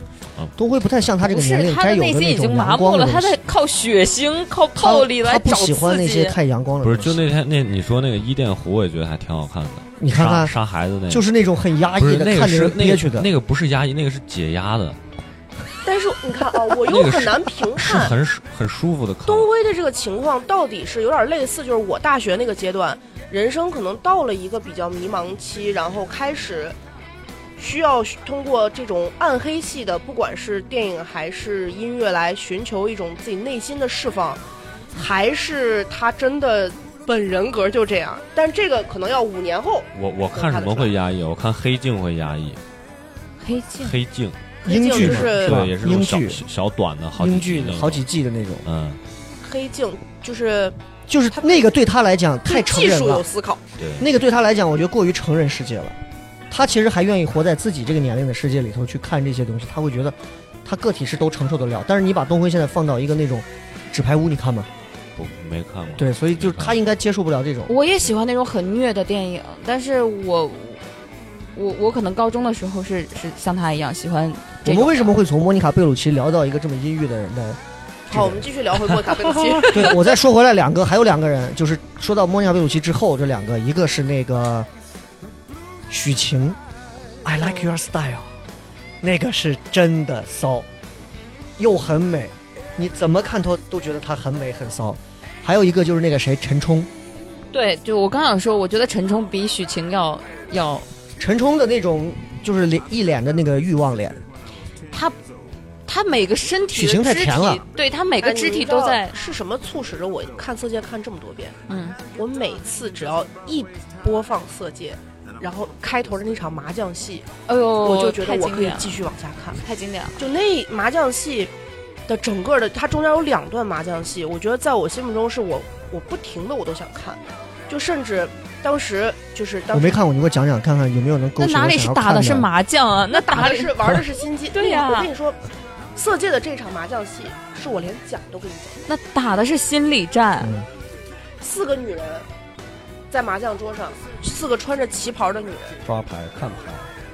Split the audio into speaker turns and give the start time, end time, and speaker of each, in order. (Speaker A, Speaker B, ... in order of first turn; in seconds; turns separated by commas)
Speaker A: 0.6-3.4, Speaker B: 1.2-6.3, Speaker A: 4.8-7.2, Speaker C: 6.8-11.2, Speaker A: 10.0-10.6, Speaker A: 11.1-13.3, Speaker C: 12.0-15.0, Speaker D: 15.8-18.1, Speaker C: 16.8-19.5, Speaker D: 19.3-26.8, Speaker D: 27.6-34.4, Speaker D: 34.9-40.9, Speaker C: 39.9-42.6, Speaker B: 43.4-43.9, Speaker C: 43.8-48.0, Speaker D: 44.6-45.7, Speaker A: 44.6-46.4, Speaker A: 47.2-48.7, Speaker C: 48.6-49.0, Speaker D: 49.4-50.8, Speaker A: 51.1-53.2, Speaker D: 51.3-51.6, Speaker D: 52.5-53.6, Speaker C: 53.8-54.1, Speaker A: 54.0-56.0, Speaker A: 56.5-64.7, Speaker C: 65.2-66.8, Speaker A: 66.0-67.7, Speaker B: 67.7-70.9, Speaker B: 71.5-75.1, Speaker A: 74.6-77.6, Speaker D: 78.1-80.0, Speaker A: 78.1-78.5, Speaker A: 79.6-84.7, Speaker A: 85.9-86.6, Speaker A: 87.2-88.3, Speaker A: 89.0-90.7, Speaker A: 91.6-96.9, Speaker B: 97.5-100.8, Speaker A: 101.2-104.2, Speaker B: 104.9-105.2, Speaker B: 105.9-109.2, Speaker A: 106.7-107.6, Speaker D: 108.2-111.5, Speaker B: 111.7-112.0, Speaker D: 112.1-117.3, Speaker B: 117.5-119.0, Speaker D: 117.8-119.6, Speaker B: 119.5-120.2, Speaker D: 120.2-121.5, Speaker D: 122.1-130.0, Speaker A: 129.7-132.5, Speaker B: 131.4-133.8, Speaker D: 133.1-135.4, Speaker B: 134.5-135.1, Speaker D: 135.9-138.8, Speaker B: 138.9-140.5, Speaker A: 140.4-140.7, Speaker D: 141.4-142.3, Speaker D: 143.1-145.8, Speaker C: 145.8-146.9